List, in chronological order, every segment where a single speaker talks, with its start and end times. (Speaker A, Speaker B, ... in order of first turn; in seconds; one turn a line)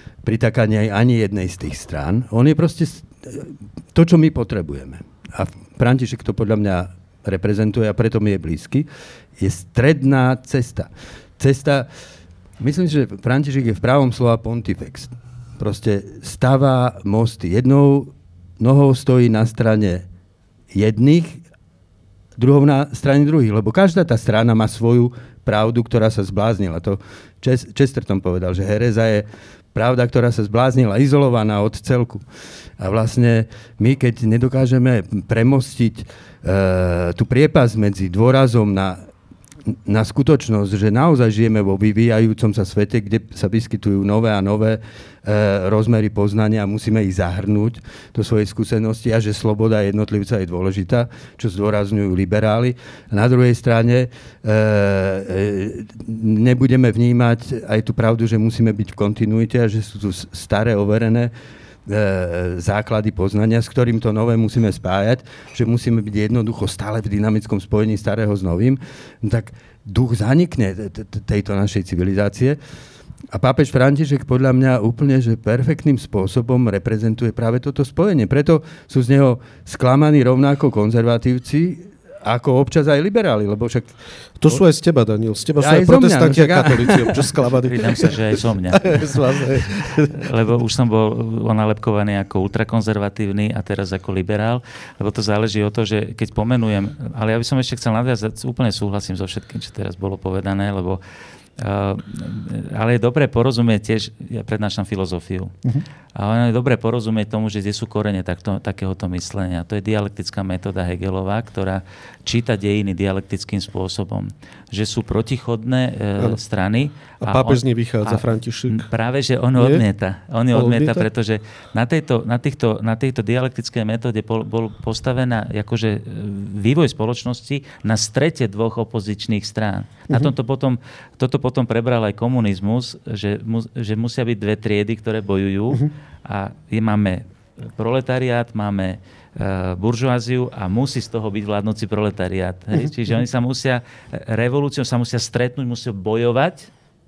Speaker A: 0.2-8.9
Speaker A: 9.4-11.9
Speaker A: 12.6-20.1
Speaker A: 20.7-21.4
Speaker A: 22.4-32.2
Speaker A: 32.8-39.0
Speaker A: 39.7-61.3
Speaker A: 61.9-72.6
Speaker A: 73.3-83.9
Speaker B: 84.4-90.2
Speaker A: 85.6-87.5
Speaker C: 87.6-89.2
Speaker C: 89.9-101.0
Speaker C: 101.6-105.5
Speaker C: 106.2-137.2
Speaker B: 117.2-118.9
Speaker B: 119.6-119.8
Speaker B: 120.5-121.1
Speaker C: 137.8-146.7